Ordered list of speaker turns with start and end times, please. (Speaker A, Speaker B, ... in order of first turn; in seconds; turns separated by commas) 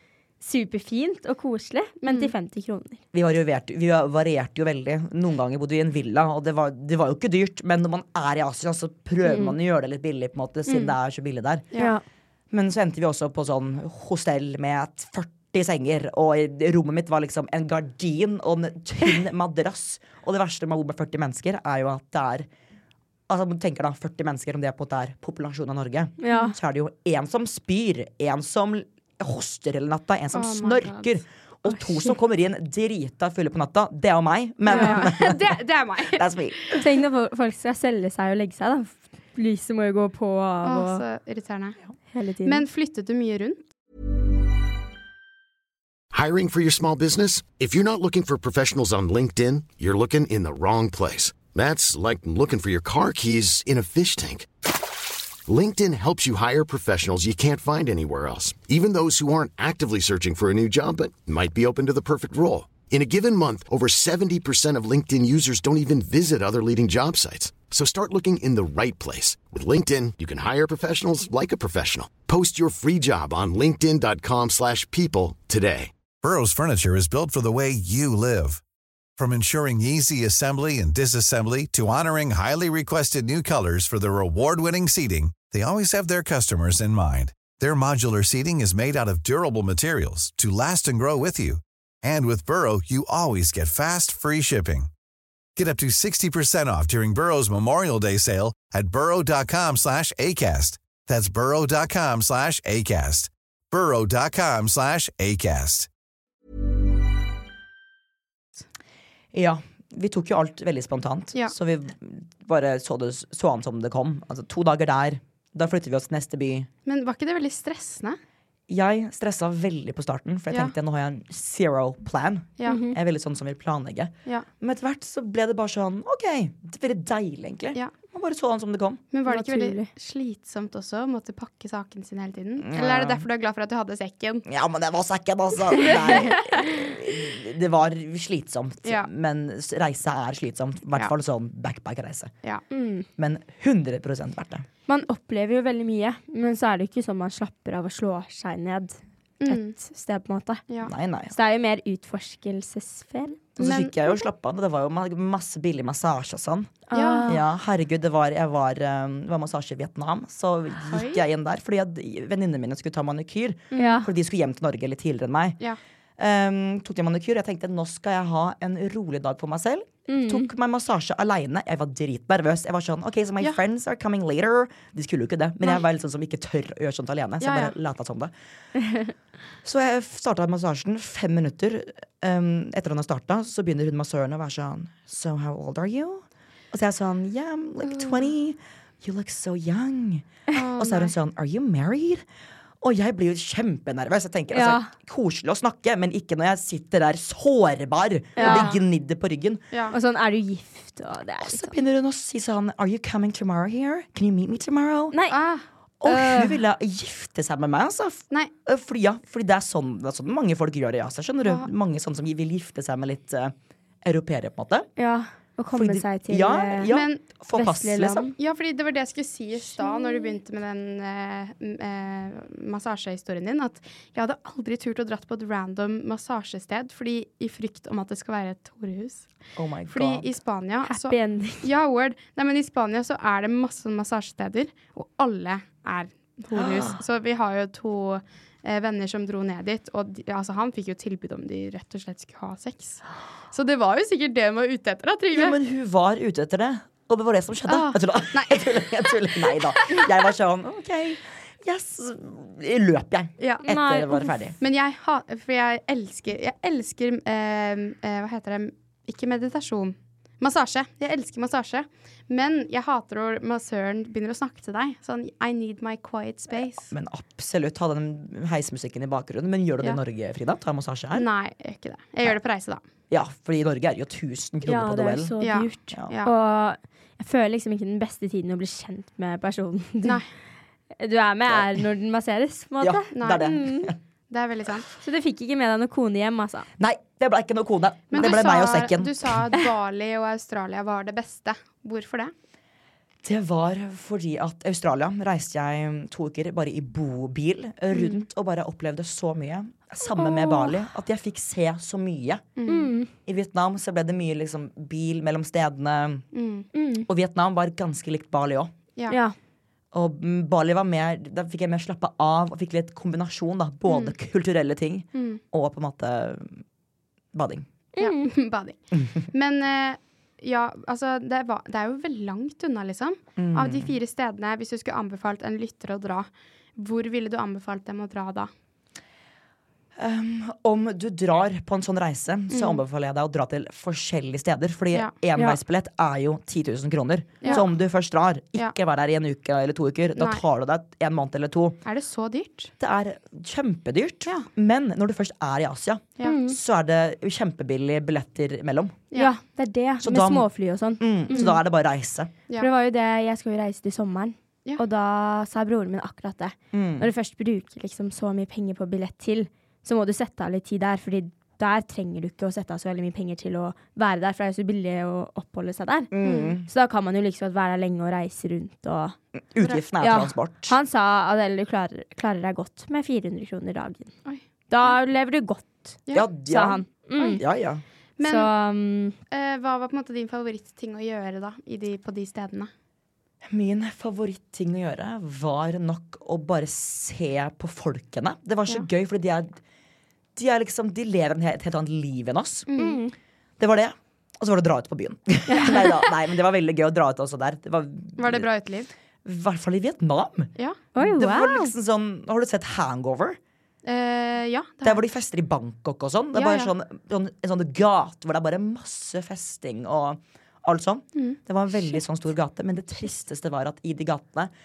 Speaker A: 0.4-3.0, Speaker B: 2.1-2.3, Speaker C: 3.1-11.7, Speaker A: 9.2-9.5, Speaker B: 10.7-10.9, Speaker A: 11.8-12.0, Speaker C: 12.5-22.5, Speaker C: 23.3-36.8, Speaker A: 26.2-26.5, Speaker B: 30.3-31.1, Speaker B: 34.7-36.3, Speaker A: 34.7-35.1, Speaker A: 36.8-41.0, Speaker B: 40.6-41.8, Speaker A: 42.1-42.6, Speaker B: 42.4-43.6, Speaker D: 46.1-54.5, Speaker D: 55.5-75.9, Speaker E: 76.2-78.6, Speaker E: 79.2-94.9, Speaker E: 95.5-105.9, Speaker C: 109.3-116.7, Speaker B: 116.8-118.2, Speaker C: 118.7-129.0, Speaker A: 122.7-123.0, Speaker B: 129.1-134.4, Speaker A: 129.3-129.9, Speaker C: 132.6-133.2, Speaker C: 134.5-142.3, Speaker B: 135.9-136.3, Speaker A: 142.7-143.1, Speaker C: 143.2-144.7, Speaker A: 144.9-150.6, Speaker B: 149.4-149.7, Speaker C: 150.8-151.3, Speaker A: 151.3-153.4, Speaker C: 153.6-165.6, Speaker B: 153.6-154.2, Speaker A: 156.9-157.4, Speaker B: 156.9-157.3, Speaker B: 160.9-161.2, Speaker B: 163.7-164.0, Speaker A: 163.8-164.1, Speaker C: 166.2-178.3, Speaker A: 170.1-170.5, Speaker B: 177.4-177.7, Speaker C: 179.6-192.2, Speaker B: 187.9-188.2, Speaker B: 190.5-191.1, Speaker C: 192.8-199.6, Speaker A: 194.5-194.9, Speaker A: 198.4-198.7, Speaker B: 198.4-198.8, Speaker A: 199.9-201.7, Speaker C: 201.4-205.1, Speaker A: 205.1-205.4, Speaker B: 205.3-205.6, Speaker C: 206.0-214.9, Speaker A: 206.1-206.6, Speaker A: 215.0-216.9, Speaker C: 215.7-218.3, Speaker B: 216.9-217.2, Speaker A: 217.5-218.3, Speaker B: 218.4-229.3, Speaker A: 219.7-220.3, Speaker C: 229.6-230.3, Speaker B: 229.9-245.6, Speaker A: 230.8-231.7, Speaker C: 236.5-237.0, Speaker C: 245.3-254.6, Speaker B: 247.7-249.2, Speaker B: 253.4-253.6, Speaker A: 253.6-254.3, Speaker B: 254.6-266.9, Speaker C: 266.8-271.3, Speaker B: 271.1-272.8, Speaker C: 273.1-275.3, Speaker A: 274.6-280.2, Speaker B: 275.4-276.3, Speaker A: 281.0-283.9, Speaker C: 282.8-283.9, Speaker B: 283.1-283.5, Speaker B: 284.3-284.9, Speaker A: 285.0-286.7, Speaker C: 286.8-289.4, Speaker B: 288.1-292.3, Speaker C: 293.2-302.4, Speaker B: 297.9-298.2, Speaker A: 300.1-300.7, Speaker B: 302.6-302.9, Speaker A: 302.7-303.1, Speaker C: 303.2-306.2, Speaker B: 306.3-306.7, Speaker A: 306.7-307.1, Speaker C: 307.1-308.7, Speaker A: 309.1-309.3, Speaker C: 309.9-316.6, Speaker B: 313.9-314.1, Speaker B: 315.1-315.4, Speaker C: 317.3-317.6, Speaker A: 318.0-318.3, Speaker B: 318.0-328.5, Speaker C: 323.4-323.9, Speaker C: 330.0-341.8, Speaker B: 332.5-332.8, Speaker B: 340.1-340.4, Speaker B: 341.8-342.7, Speaker C: 342.8-349.0, Speaker A: 346.2-346.6, Speaker A: 349.1-351.5, Speaker C: 350.0-350.5, Speaker C: 351.0-352.3, Speaker B: 351.3-351.6, Speaker A: 352.6-369.1, Speaker C: 356.7-357.1, Speaker C: 366.1-366.7, Speaker B: 366.2-366.5, Speaker C: 369.5-370.7, Speaker A: 370.0-374.1, Speaker A: 374.7-377.4, Speaker C: 376.1-376.8, Speaker C: 377.3-377.8, Speaker B: 378.2-378.5, Speaker A: 378.2-379.1, Speaker B: 379.3-382.7, Speaker C: 383.4-389.6, Speaker C: 390.3-392.7, Speaker B: 392.7-393.0, Speaker A: 392.8-393.1, Speaker C: 393.6-398.5, Speaker A: 395.5-395.8, Speaker B: 398.2-398.9, Speaker C: 399.2-403.4, Speaker A: 400.9-401.7, Speaker B: 403.8-405.0, Speaker C: 404.8-414.5, Speaker B: 406.3-406.7